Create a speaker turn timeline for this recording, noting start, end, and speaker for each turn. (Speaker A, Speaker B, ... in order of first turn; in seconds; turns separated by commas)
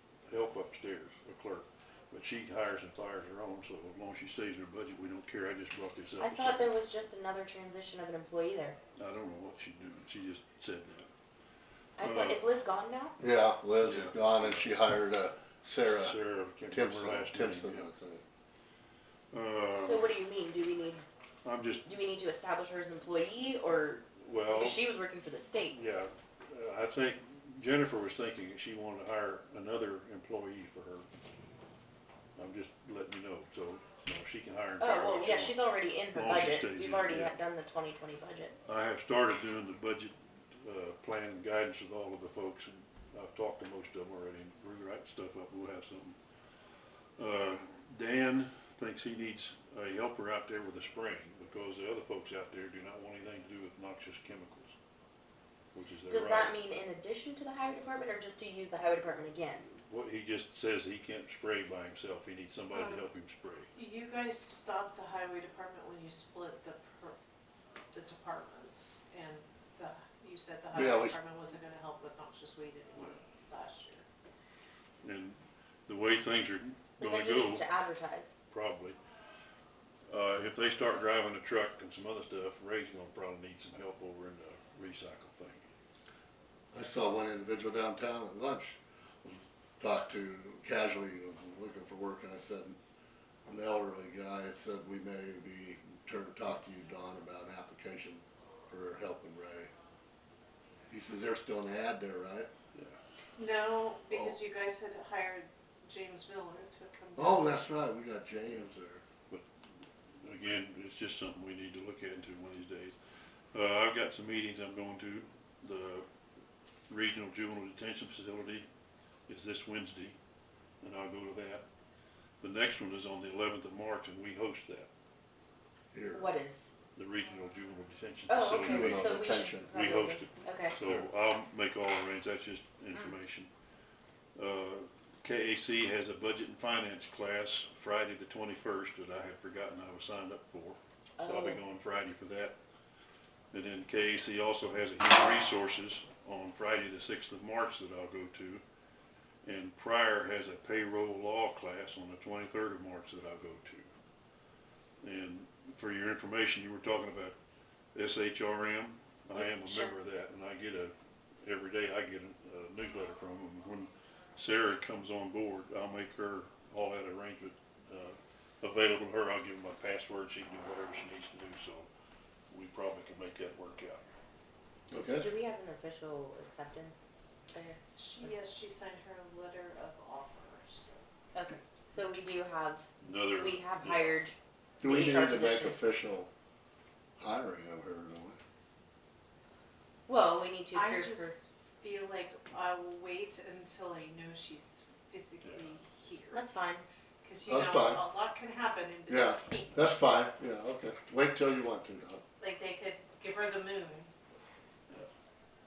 Speaker A: 0.3-6.7, Speaker B: 6.2-8.8, Speaker A: 9.0-11.1, Speaker B: 12.0-13.2, Speaker A: 12.0-12.4, Speaker C: 13.2-16.2, Speaker A: 13.8-14.7, Speaker A: 15.9-17.9, Speaker C: 16.7-18.2, Speaker A: 19.3-20.1, Speaker B: 19.8-21.0, Speaker A: 21.4-21.9, Speaker B: 21.9-25.8, Speaker A: 24.2-24.8, Speaker A: 25.7-31.1, Speaker A: 32.4-37.3, Speaker B: 34.8-38.5, Speaker A: 38.7-46.2, Speaker A: 47.2-54.8, Speaker A: 55.7-56.5, Speaker B: 56.1-59.6, Speaker A: 59.7-63.7, Speaker D: 62.7-63.0, Speaker D: 63.7-67.2, Speaker D: 67.9-74.0, Speaker C: 70.7-71.2, Speaker A: 75.0-77.7, Speaker B: 77.0-78.3, Speaker A: 78.5-79.0, Speaker A: 80.1-85.6, Speaker C: 86.7-92.8, Speaker C: 93.5-99.7, Speaker C: 100.9-102.5, Speaker D: 103.4-107.5, Speaker C: 104.1-104.3, Speaker C: 107.2-109.0, Speaker A: 110.2-113.0, Speaker A: 113.5-116.0, Speaker A: 116.9-118.7, Speaker A: 119.3-120.2, Speaker A: 120.8-121.6, Speaker A: 122.4-124.9, Speaker C: 125.9-126.3, Speaker B: 126.1-126.6, Speaker A: 127.0-129.1, Speaker B: 128.3-130.7, Speaker C: 128.6-129.7, Speaker A: 129.7-133.5, Speaker A: 134.4-142.6, Speaker B: 141.2-141.6, Speaker A: 143.5-148.6, Speaker A: 149.4-153.9, Speaker A: 155.0-157.4, Speaker A: 157.9-171.9, Speaker B: 159.4-159.9, Speaker A: 172.5-174.0, Speaker C: 174.9-175.3, Speaker B: 175.2-178.3, Speaker D: 177.9-181.0, Speaker B: 181.3-185.8, Speaker A: 183.0-184.2, Speaker C: 184.8-186.3, Speaker C: 187.2-188.4, Speaker B: 190.1-191.4, Speaker D: 190.7-196.5, Speaker B: 196.3-196.8, Speaker D: 197.2-199.9, Speaker C: 197.5-198.0, Speaker C: 199.1-202.2, Speaker D: 202.4-204.1